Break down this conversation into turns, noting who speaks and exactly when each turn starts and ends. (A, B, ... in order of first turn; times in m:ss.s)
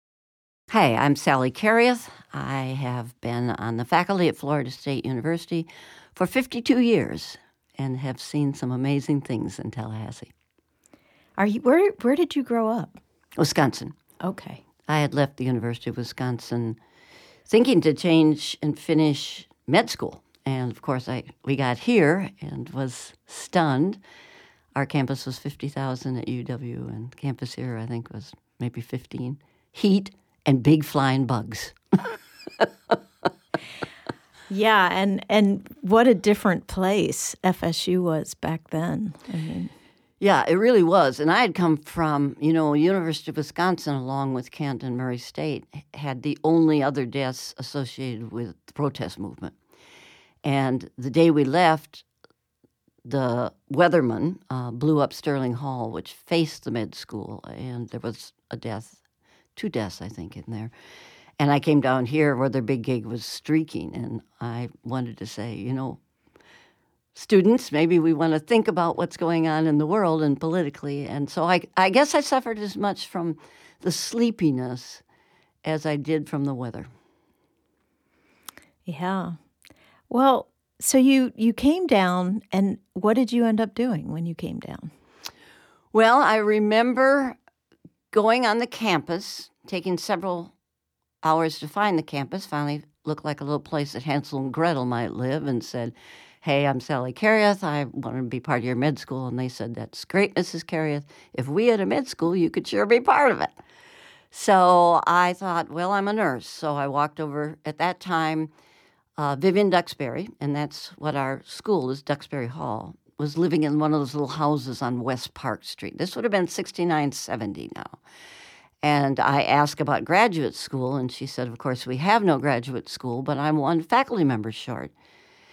0:00.7-0:10.3 A
0:11.4-0:13.0 B
0:13.4-0:14.0 A
0:14.2-0:14.6 B
0:14.9-0:16.8 A
0:17.5-0:24.0 A
0:24.8-0:31.8 A
0:32.6-0:33.0 A
0:34.5-0:39.7 B
0:40.2-0:49.6 A
0:50.4-0:52.0 A
0:53.0-0:59.0 A
0:59.6-1:00.7 A
1:01.4-1:06.0 A
1:07.2-1:15.0 A
1:15.6-1:16.9 A
1:18.8-1:19.4 B
1:20.1-1:24.9 B
1:25.9-1:27.4 A
1:28.1-1:30.5 A
1:31.2-1:43.5 A
1:44.3-1:48.5 A
1:49.2-1:58.0 A
1:58.8-2:04.9 A